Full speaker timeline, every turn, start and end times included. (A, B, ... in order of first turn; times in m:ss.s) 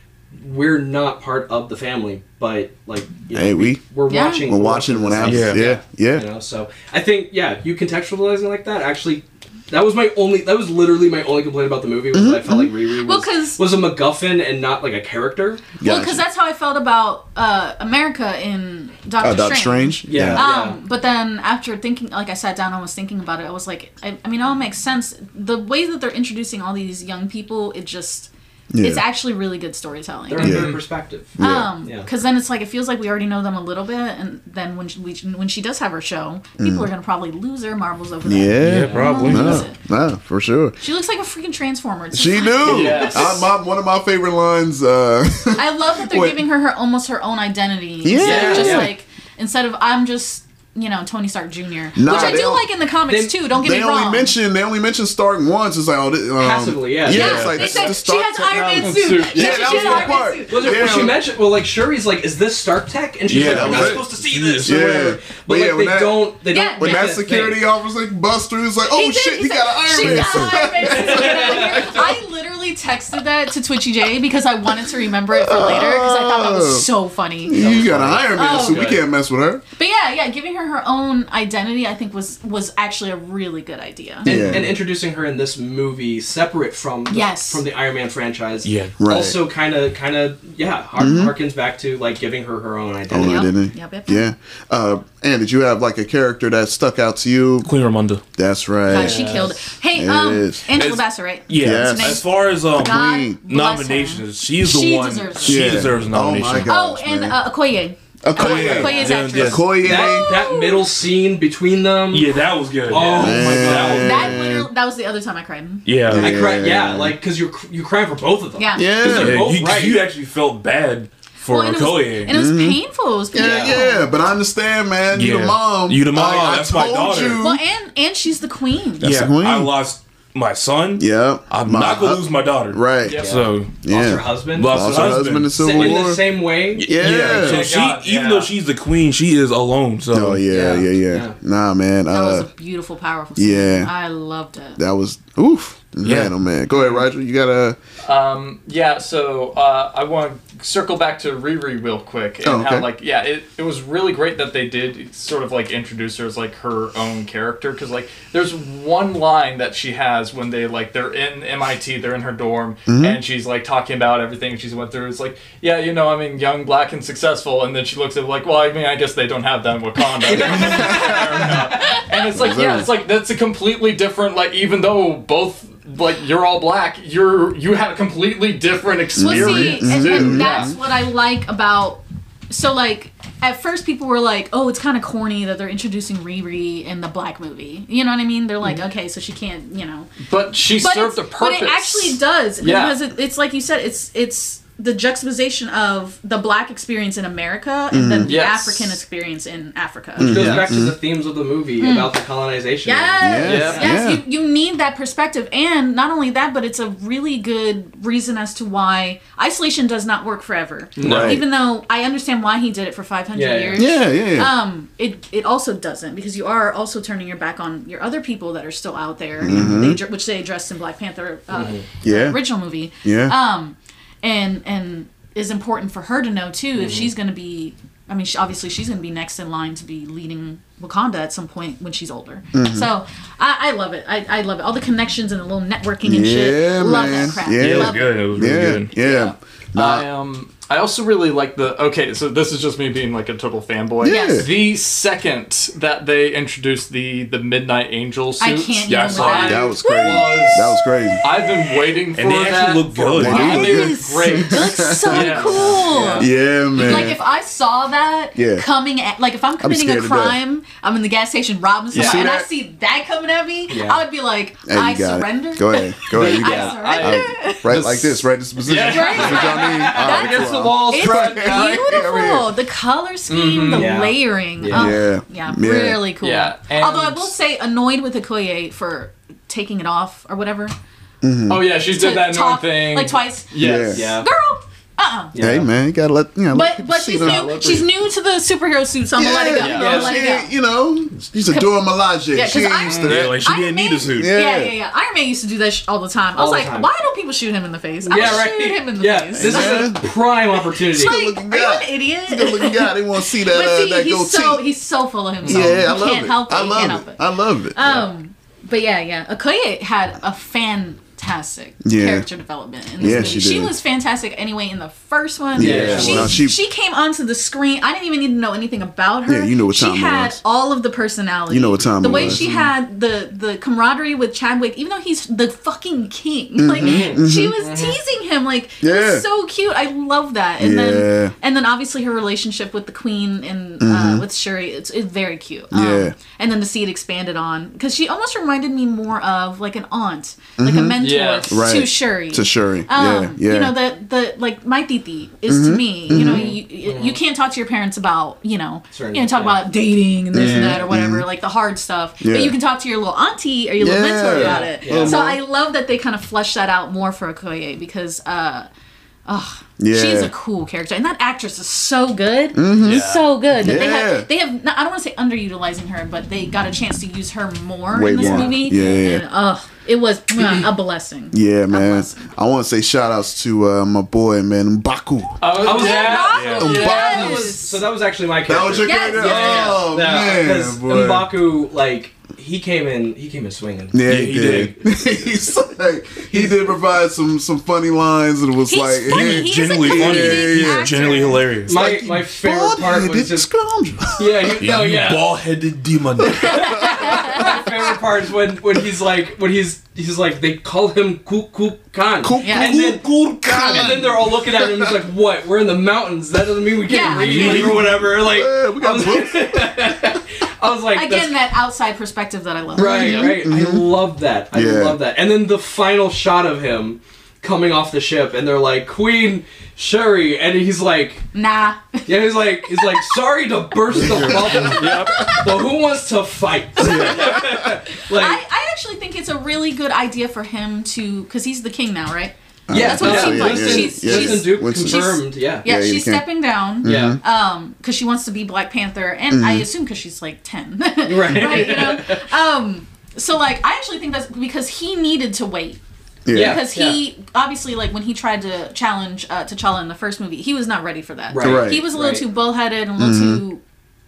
0:00.3-0:15.7 A
0:03.3-0:06.3 B
0:04.1-0:04.4 C
0:05.2-0:05.7 D
0:12.1-0:12.7 B
0:13.0-0:13.6 C
0:15.8-0:16.2 B
0:15.8-0:28.3 C
0:19.2-0:20.4 B
0:20.1-0:20.8 A
0:28.7-0:29.0 B
0:28.8-0:30.6 C
0:30.3-0:32.1 A
0:30.4-0:30.7 B
0:30.4-0:30.7 D
0:31.3-0:31.7 B
0:31.4-0:39.8 C
0:36.6-0:36.9 B
0:38.2-0:40.8 B
0:38.6-0:39.7 D
0:38.8-0:39.2 A
0:40.8-0:43.4 C
0:42.1-0:46.4 B
0:42.7-0:43.3 E
0:42.8-0:43.3 A
0:45.6-0:54.3 C
0:48.0-0:48.9 B
0:48.2-0:48.9 A
0:51.9-0:52.6 B
0:52.0-0:52.6 A
0:53.1-0:53.4 A
0:53.5-1:01.2 B
0:56.4-0:57.9 A
0:57.0-1:01.0 C
0:57.1-0:57.8 D
0:58.7-1:00.3 E
0:59.7-1:07.6 A
1:03.2-1:05.1 D
1:03.4-1:04.0 B
1:04.6-1:12.1 B
1:06.5-1:07.1 C
1:08.9-1:17.6 C
1:10.0-1:10.4 A
1:10.9-1:12.1 A
1:15.3-1:16.9 B
1:17.4-1:19.6 B
1:17.5-1:19.0 A
1:18.3-1:19.0 C
1:19.8-1:24.3 C
1:24.2-1:33.5 A
1:24.2-1:24.8 B
1:27.1-1:27.6 C
1:28.6-1:29.0 D
1:29.0-1:29.4 B
1:31.0-1:31.4 B
1:33.1-1:37.7 B
1:33.2-1:34.3 C
1:37.6-1:38.2 D
1:38.3-1:39.3 B
1:38.9-1:45.8 C
1:39.0-1:39.6 D
1:39.9-1:40.6 B
1:40.7-1:46.7 D
1:41.6-1:43.4 B
1:45.4-1:47.4 B
1:46.7-1:50.9 C
1:48.2-1:50.5 B
1:48.4-1:49.0 A
1:48.4-1:49.8 D
1:49.8-1:54.3 A
1:52.1-1:54.3 D
1:53.1-1:54.7 B
1:53.8-1:55.8 C
1:55.8-1:56.5 D
1:56.0-1:57.2 B
1:56.2-2:00.0 A
1:58.6-1:58.9 C
1:58.7-1:59.5 B
1:59.0-2:02.3 D
2:01.4-2:04.1 C
2:02.3-2:02.8 B
2:03.3-2:07.6 B
2:03.4-2:03.8 A
2:05.1-2:07.4 D
2:07.4-2:09.0 C
2:09.0-2:09.7 B
2:09.0-2:13.9 D
2:11.0-2:13.2 B
2:13.0-2:13.3 E
2:13.2-2:17.0 A
2:13.8-2:16.2 B
2:14.4-2:16.0 D
2:16.8-2:20.4 D
2:16.8-2:17.7 B
2:17.1-2:18.5 E
2:20.1-2:22.5 B
2:20.5-2:21.4 A
2:22.1-2:24.8 C
2:23.4-2:23.9 B
2:24.8-2:27.8 B
2:26.0-2:26.3 D
2:28.0-3:00.7 E
2:32.4-2:32.9 B
2:42.8-2:43.2 B
2:50.2-2:51.7 A
2:50.4-2:51.3 B
2:51.8-2:52.1 C
2:52.3-2:52.9 B
2:59.2-3:00.8 B
2:59.2-3:10.1 C
2:59.4-2:59.8 D
3:10.2-3:13.0 E
3:10.8-3:20.5 C
3:17.9-3:18.4 B
3:18.2-3:19.0 E
3:20.2-3:21.0 B
3:20.2-3:23.9 A
3:20.3-3:20.7 E
3:21.8-3:22.1 C
3:22.8-3:58.2 C
3:23.2-3:24.2 B
3:23.4-3:23.9 E
3:31.0-3:31.4 A
3:31.0-3:31.4 B
3:33.3-3:33.9 A
3:33.8-3:34.5 B
3:39.4-3:40.0 B
3:39.5-3:39.8 A
3:41.5-3:41.9 A
3:42.0-3:42.4 B
3:43.0-3:43.4 B
3:46.8-3:47.1 A
3:52.5-3:52.9 B
3:56.0-4:00.0 B
3:57.6-3:58.9 D
3:59.0-4:16.3 E
4:04.0-4:04.5 B
4:04.0-4:04.5 C
4:08.4-4:11.2 C
4:08.9-4:09.6 D
4:09.4-4:11.2 B
4:12.1-4:13.7 D
4:13.2-4:15.4 B
4:13.3-4:16.3 C
4:15.3-4:16.2 A
4:16.2-4:17.2 B
4:16.8-4:27.8 C
4:18.3-4:18.7 B
4:19.6-4:20.4 B
4:21.9-4:22.2 A
4:21.9-4:22.5 B
4:23.7-4:24.0 A
4:24.6-4:32.5 B
4:26.1-4:27.8 E
4:26.2-4:26.8 A
4:27.7-4:31.8 A
4:28.6-4:29.9 E
4:28.9-4:40.7 C
4:30.4-4:31.0 E
4:33.3-4:33.9 E
4:33.7-4:35.0 A
4:34.7-4:36.0 B
4:36.2-4:37.3 E
4:41.2-4:41.6 B
4:41.5-4:44.2 E
4:41.9-4:45.3 C
4:43.6-4:44.0 B
4:43.6-4:44.3 A
4:45.3-4:45.7 A
4:45.4-4:47.9 B
4:46.5-4:50.5 C
4:49.1-4:53.4 B
4:49.6-4:49.9 E
4:49.6-4:50.1 A
4:51.5-4:51.8 C
4:52.3-5:00.0 C
4:52.9-4:54.4 D
4:54.0-4:54.7 B
4:56.4-4:56.9 A
4:58.0-5:01.2 A
4:59.4-5:00.0 B
5:00.5-5:58.7 C
5:00.9-5:04.6 B
5:05.4-5:08.0 B
5:05.4-5:05.7 A
5:11.8-5:12.3 B
5:13.0-5:13.7 B
5:13.0-5:13.4 A
5:15.5-5:16.6 B
5:15.6-5:16.4 A
5:19.3-5:20.4 B
5:21.5-5:22.5 B
5:22.2-5:22.7 A
5:26.6-5:27.6 B
5:26.8-5:28.0 A
5:28.8-5:29.2 B
5:30.6-5:31.3 B
5:33.8-5:34.2 B
5:35.7-5:36.2 B
5:40.6-5:43.7 B
5:41.0-5:41.5 E
5:45.5-5:46.5 B
5:46.1-5:47.2 A
5:48.9-5:49.6 A
5:50.3-5:51.2 B
5:50.4-5:50.9 A
5:52.2-5:52.6 B
5:53.8-5:55.3 B
5:54.3-5:55.4 A
5:59.2-6:12.3 C
5:59.8-6:00.3 B
6:02.5-6:04.3 B
6:02.8-6:03.3 E
6:07.9-6:09.2 B
6:08.2-6:09.0 A
6:10.4-6:10.6 A
6:11.3-6:15.4 B
6:15.4-6:17.4 E
6:15.6-6:17.8 C
6:15.6-6:24.0 A
6:16.3-6:16.8 D
6:16.6-6:17.5 B
6:18.4-6:21.3 B
6:18.8-6:19.8 C
6:19.5-6:19.7 E
6:23.9-6:30.9 B
6:24.0-6:24.8 D
6:26.2-6:26.7 A
6:28.7-6:31.5 C
6:29.1-6:31.9 D
6:31.6-6:34.7 B
6:31.7-6:33.5 A
6:34.2-6:35.4 A
6:34.6-6:36.7 D
6:36.2-6:37.6 B
6:36.3-6:51.4 A
6:36.5-6:37.4 C
6:42.2-6:44.9 B
6:42.4-6:42.7 C
6:43.0-6:44.1 D
6:46.8-6:47.7 C
6:47.0-6:48.0 D
6:47.5-6:49.9 B
6:50.9-6:53.5 C
6:52.8-6:55.0 B
6:52.8-7:01.3 A
7:01.3-7:03.2 C
7:02.0-7:08.4 A
7:03.9-7:05.2 B
7:04.0-7:04.2 D
7:04.2-7:05.6 C
7:04.8-7:05.1 E
7:06.8-7:07.4 C
7:06.8-7:07.7 B
7:08.0-7:33.6 C
7:12.7-7:16.2 B
7:12.7-7:15.6 A
7:16.8-7:17.2 B
7:16.8-7:17.2 A
7:19.3-7:19.7 B
7:21.0-7:22.2 A
7:26.2-7:26.6 B
7:26.3-7:27.0 A
7:31.3-7:32.2 A
7:31.4-7:31.9 B
7:33.0-7:33.4 B